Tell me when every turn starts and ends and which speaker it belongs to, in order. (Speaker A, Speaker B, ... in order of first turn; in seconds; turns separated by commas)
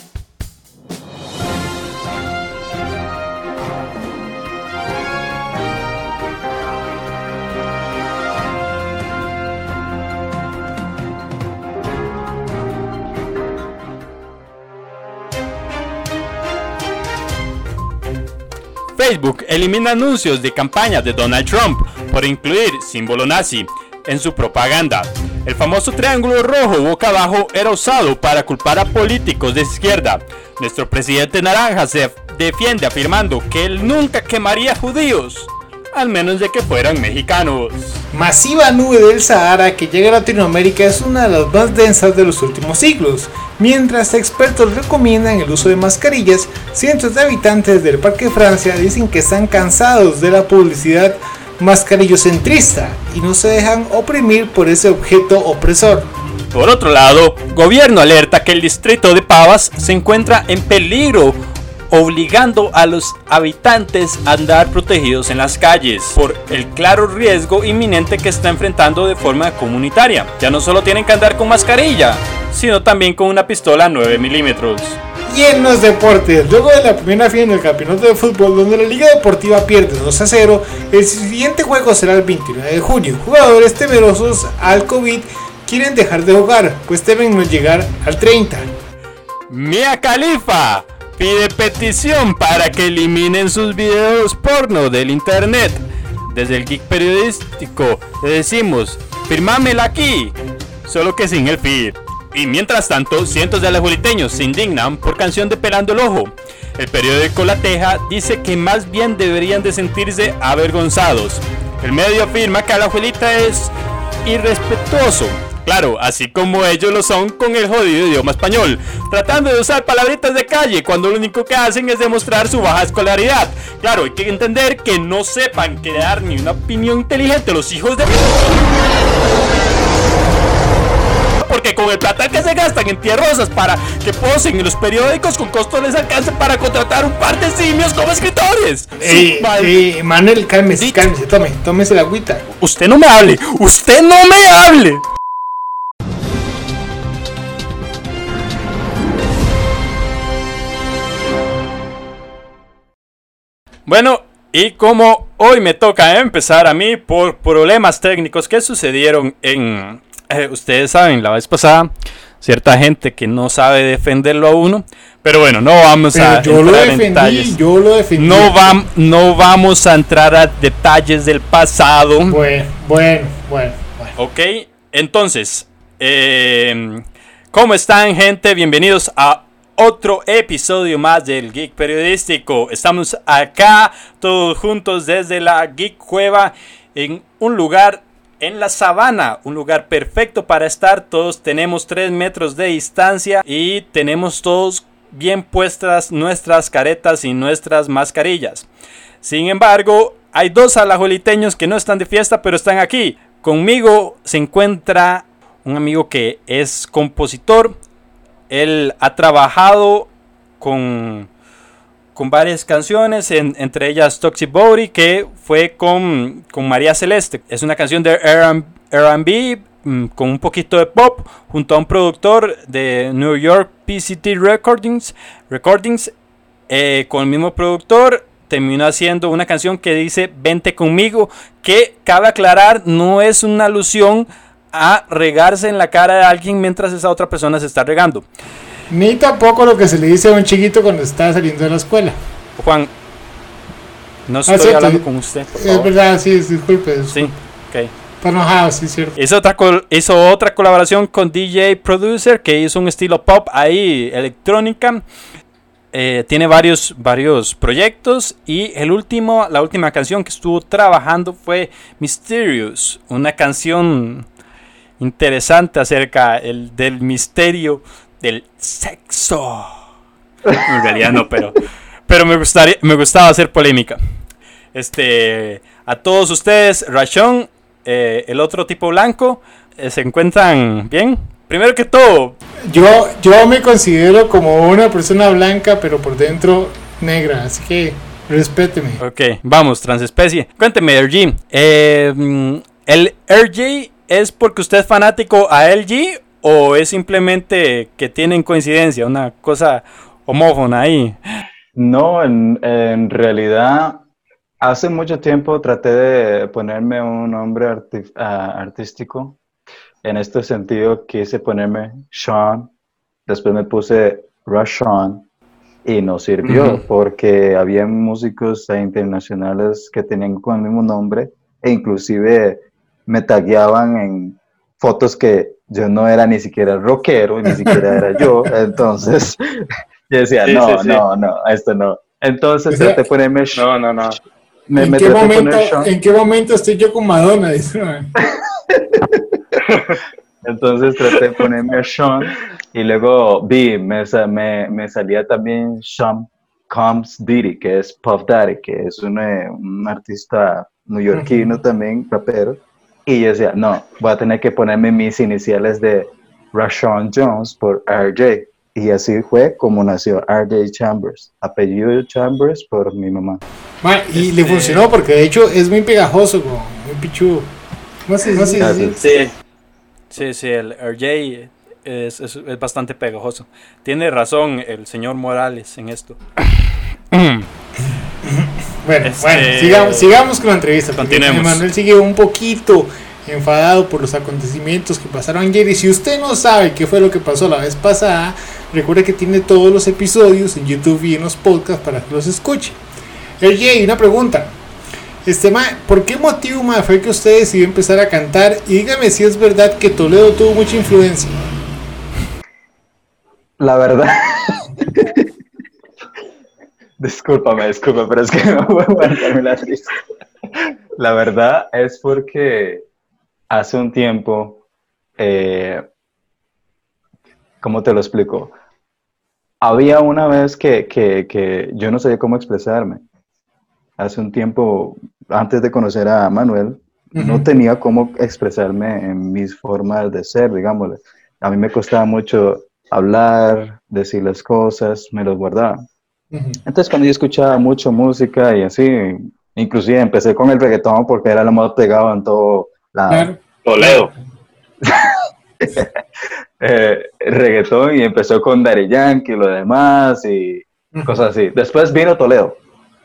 Speaker A: 19.0-38.0, Speaker B: 38.1-56.1, Speaker A: 56.5-61.4, Speaker A: 61.9-75.0, Speaker B: 75.3-88.7, Speaker A: 89.5-113.7, Speaker A: 114.2-128.6, Speaker A: 131.4-139.8, Speaker B: 139.0-142.4, Speaker A: 140.8-141.1, Speaker A: 142.6-145.0, Speaker A: 153.9-161.9, Speaker A: 162.4-167.6, Speaker B: 166.1-168.7, Speaker A: 168.2-172.4, Speaker B: 172.3-174.1, Speaker A: 174.2-198.7, Speaker A: 199.2-207.8, Speaker A: 208.5-211.3, Speaker A: 212.2-226.1, Speaker A: 226.7-238.3, Speaker B: 238.9-242.2, Speaker A: 242.6-242.9, Speaker A: 244.3-245.9, Speaker B: 244.5-245.0, Speaker B: 245.6-247.3, Speaker A: 247.1-247.9, Speaker B: 248.2-249.2, Speaker A: 249.2-255.0, Speaker A: 255.9-264.3, Speaker A: 265.0-269.7, Speaker A: 270.6-274.0, Speaker A: 274.7-282.4, Speaker B: 282.7-289.0, Speaker A: 289.0-301.2, Speaker C: 301.8-304.1, Speaker C: 304.6-309.4, Speaker C: 310.0-312.7, Speaker C: 313.3-315.3, Speaker C: 315.9-333.7, Speaker A: 316.5-316.8, Speaker D: 330.4-331.0, Speaker B: 332.7-333.0, Speaker D: 333.6-334.2, Speaker C: 334.7-335.9, Speaker B: 334.8-338.1, Speaker C: 338.2-339.4, Speaker D: 339.6-340.0, Speaker C: 340.4-363.4, Speaker B: 351.1-351.4, Speaker B: 363.8-367.5, Speaker A: 364.1-364.9, Speaker B: 368.1-369.0, Speaker C: 368.6-369.0, Speaker D: 369.0-369.3, Speaker A: 370.1-377.5, Speaker B: 378.2-392.8, Speaker A: 379.0-380.2, Speaker A: 381.0-381.6, Speaker B: 393.4-394.5, Speaker B: 395.2-401.4, Speaker C: 403.6-405.3, Speaker C: 407.0-409.9, Speaker C: 411.0-412.9, Speaker C: 413.5-414.6, Speaker C: 415.2-415.9, Speaker C: 417.6-418.5, Speaker C: 419.6-423.0, Speaker C: 424.0-435.8, Speaker B: 427.1-427.5, Speaker B: 436.3-436.6, Speaker C: 436.7-443.3, Speaker B: 443.1-444.1, Speaker D: 443.6-444.1, Speaker C: 444.8-445.9, Speaker C: 446.6-452.6, Speaker B: 450.9-451.2